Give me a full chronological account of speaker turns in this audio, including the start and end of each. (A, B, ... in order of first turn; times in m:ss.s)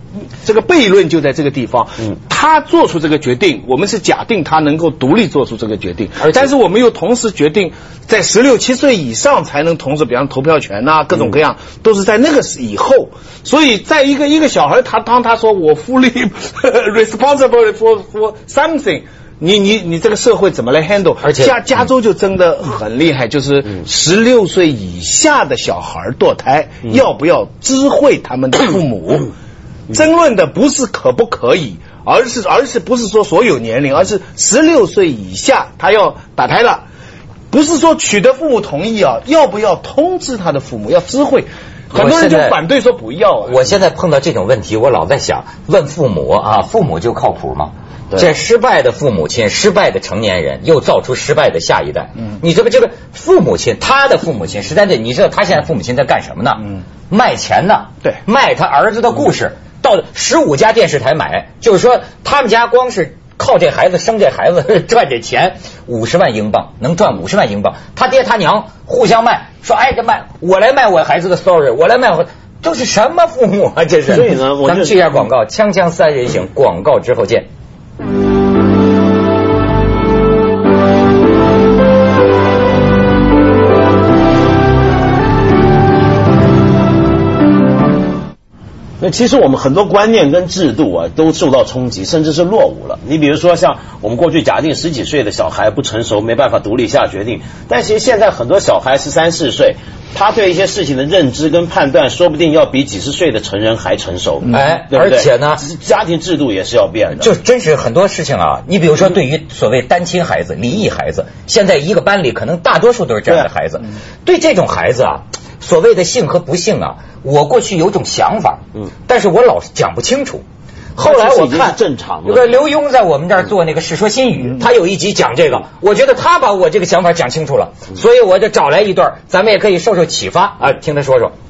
0:00.4-0:29.3 A
0:21.2-0:21.6 B
0:29.9-0:36.8 A
0:37.5-0:43.8 A
0:41.9-0:42.6 B
0:43.4-1:17.5 B
1:14.1-1:15.2 C
1:29.0-1:47.3 C
1:44.5-1:45.6 B
1:47.2-2:00.4 B
2:01.0-2:11.3 B
2:01.0-2:02.5 C